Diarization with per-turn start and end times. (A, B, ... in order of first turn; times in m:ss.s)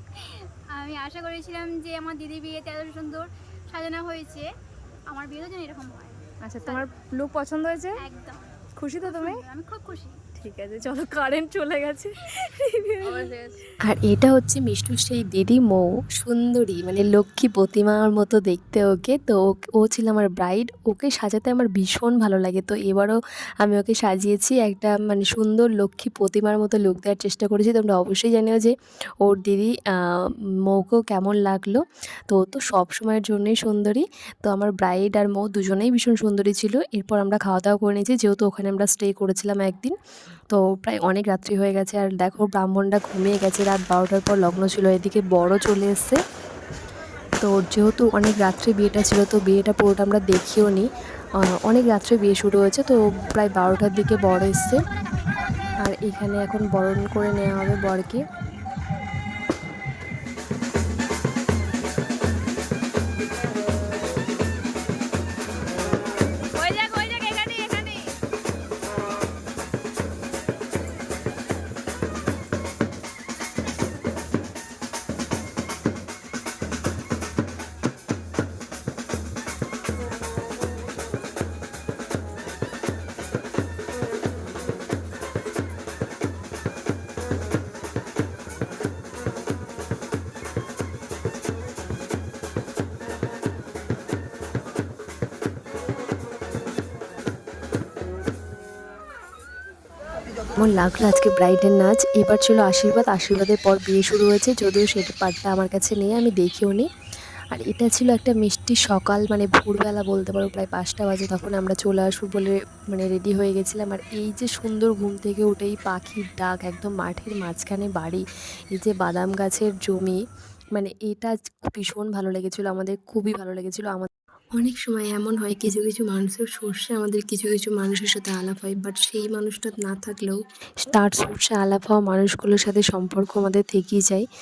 0:00.3-0:04.5 A
0:05.1-0:06.8 A
0:06.5-0:07.7 B
0:08.0-0:08.5 A
0:08.8-0:09.3 B
0:09.0-0:10.2 A
0:10.4-0:13.4 B
0:13.8-0:40.0 C
0:40.5-0:46.2 C
0:47.4-0:54.8 C
0:55.8-0:58.2 C
1:06.5-1:08.0 B
1:40.6-1:46.9 C
1:47.5-2:00.2 C
2:00.7-2:14.2 C